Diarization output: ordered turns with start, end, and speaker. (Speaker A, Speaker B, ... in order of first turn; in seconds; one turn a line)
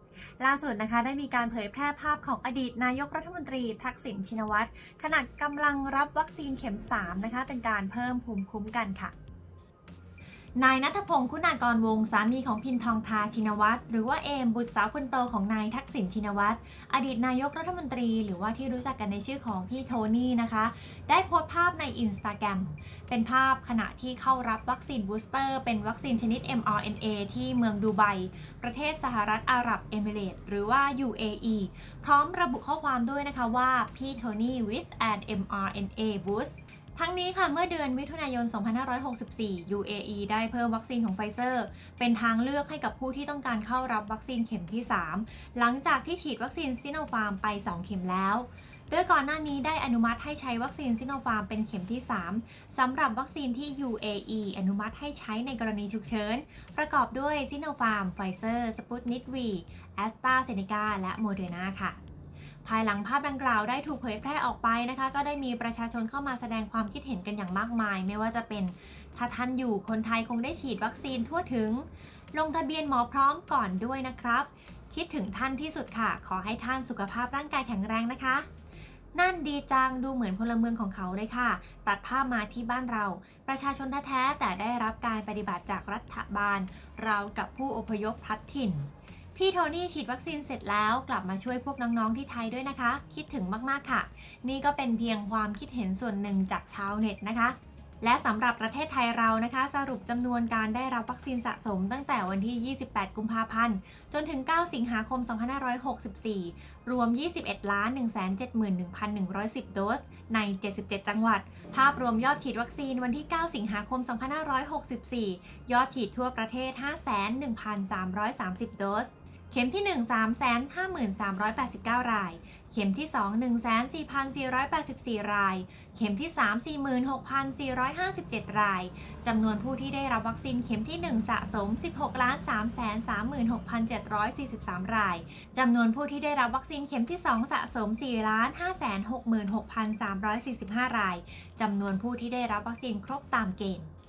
Speaker A: 0.4-9.1
Speaker A: 10.6-62.0
Speaker A: 62.6-78.5
Speaker A: 79.1-143.9